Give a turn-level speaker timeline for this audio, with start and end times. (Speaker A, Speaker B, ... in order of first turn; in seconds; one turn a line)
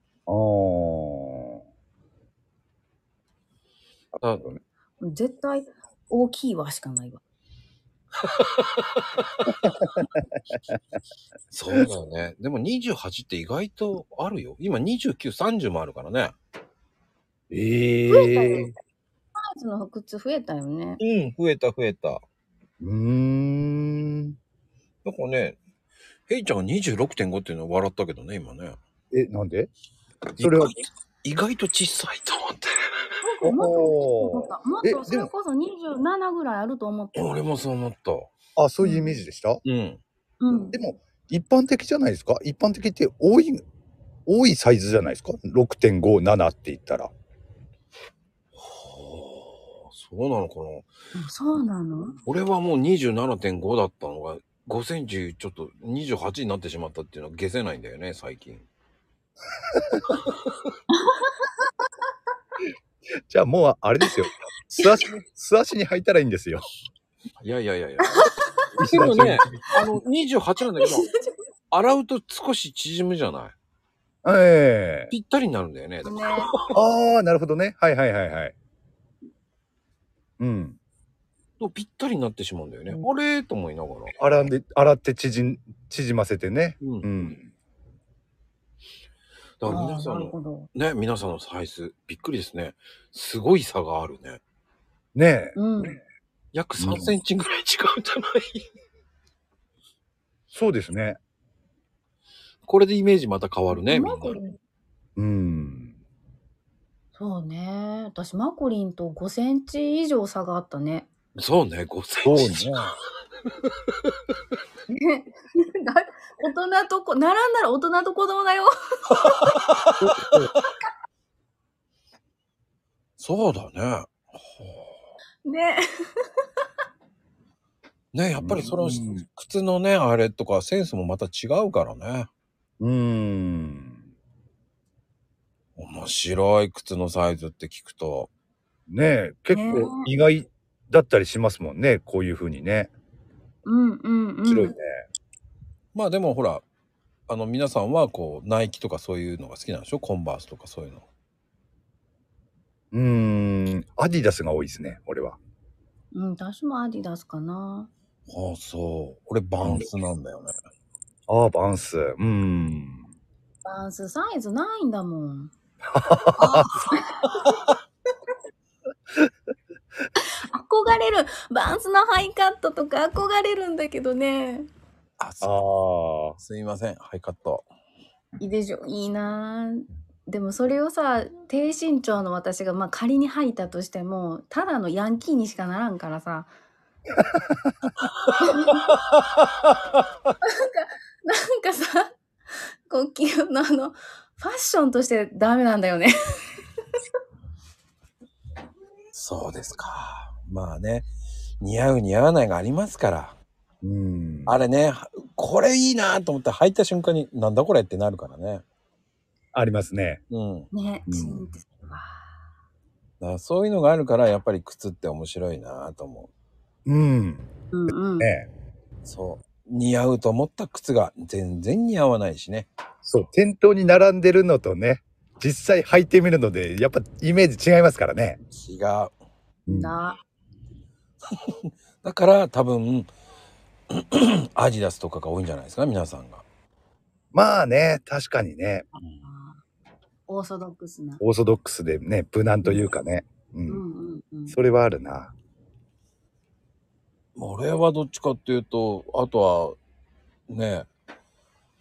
Speaker A: 0.3-1.6
Speaker A: 4.3-4.6
Speaker B: 5.0-7.2
Speaker C: 8.2-8.8
Speaker A: 9.7-10.1
Speaker C: 11.5-16.3
Speaker A: 17.5-18.7
Speaker B: 18.1-18.7
Speaker B: 19.4-21.0
Speaker C: 21.0-22.2
Speaker A: 22.8-24.4
Speaker C: 25.0-25.6
Speaker C: 26.3-28.8
Speaker A: 29.1-29.7
Speaker C: 30.4-33.1
Speaker A: 30.4-30.7
Speaker B: 33.2-37.4
Speaker A: 33.4-35.3
Speaker C: 37.1-38.3
Speaker A: 38.5-39.6
Speaker B: 38.8-39.2
Speaker C: 39.6-40.0
Speaker B: 40.4-40.8
Speaker A: 40.7-43.6
Speaker A: 44.2-47.1
Speaker C: 48.5-50.9
Speaker B: 51.1-52.1
Speaker C: 52.2-58.6
Speaker B: 60.9-61.5
Speaker A: 63.3-66.6
Speaker C: 67.4-68.3
Speaker B: 68.0-68.6
Speaker A: 68.8-69.6
Speaker C: 68.9-71.1
Speaker B: 70.8-71.3
Speaker C: 71.7-73.5
Speaker A: 74.2-75.1
Speaker C: 75.1-76.8
Speaker B: 76.0-76.5
Speaker A: 76.7-78.5
Speaker A: 80.4-80.8
Speaker C: 81.6-84.1
Speaker A: 84.2-87.5
Speaker C: 86.8-87.1
Speaker C: 89.6-94.4
Speaker B: 89.7-90.7
Speaker A: 95.1-95.5
Speaker B: 95.5-96.0
Speaker C: 96.5-98.6
Speaker A: 96.8-97.1
Speaker A: 100.5-101.2
Speaker C: 102.7-104.4
Speaker B: 103.7-104.6
Speaker A: 105.2-105.9
Speaker B: 107.1-111.1
Speaker C: 111.4-112.7
Speaker A: 112.2-112.9
Speaker B: 114.9-119.5
Speaker C: 119.2-120.1
Speaker A: 120.0-120.5
Speaker C: 123.2-124.8
Speaker B: 125.4-126.3
Speaker C: 128.1-132.3
Speaker A: 128.4-129.2
Speaker A: 132.8-134.0
Speaker C: 135.8-138.3
Speaker A: 138.9-142.9
Speaker B: 139.5-140.1
Speaker B: 143.6-144.7
Speaker A: 144.5-145.0
Speaker C: 145.9-146.6
Speaker C: 147.3-151.0
Speaker A: 152.9-155.4
Speaker B: 156.1-157.9
Speaker C: 158.3-160.5
Speaker A: 161.3-163.1
Speaker B: 163.6-165.5
Speaker A: 165.9-166.7
Speaker B: 166.4-167.5
Speaker B: 170.2-174.7
Speaker C: 175.2-175.6
Speaker A: 175.4-176.4
Speaker C: 176.4-177.6
Speaker B: 178.4-186.5
Speaker B: 188.4-188.9
Speaker B: 190.4-192.1
Speaker B: 192.9-196.6
Speaker C: 199.1-201.1
Speaker C: 201.6-203.4
Speaker A: 203.8-204.6
Speaker C: 204.4-208.6
Speaker A: 209.5-210.2
Speaker C: 210.3-210.7
Speaker B: 210.7-212.3
Speaker A: 211.1-211.4
Speaker C: 213.2-216.3
Speaker A: 216.8-217.5
Speaker B: 217.7-218.3
Speaker A: 218.1-218.5
Speaker C: 219.0-222.7
Speaker A: 223.0-228.4
Speaker C: 228.5-229.1
Speaker A: 229.7-229.9
Speaker B: 229.7-230.2
Speaker C: 231.3-233.1
Speaker C: 233.9-236.4
Speaker A: 237.3-238.9
Speaker B: 238.9-239.6
Speaker B: 240.3-241.2
Speaker A: 241.2-243.8
Speaker C: 242.6-242.9
Speaker B: 243.7-244.6
Speaker A: 244.5-245.3
Speaker C: 247.3-249.8
Speaker C: 250.5-250.9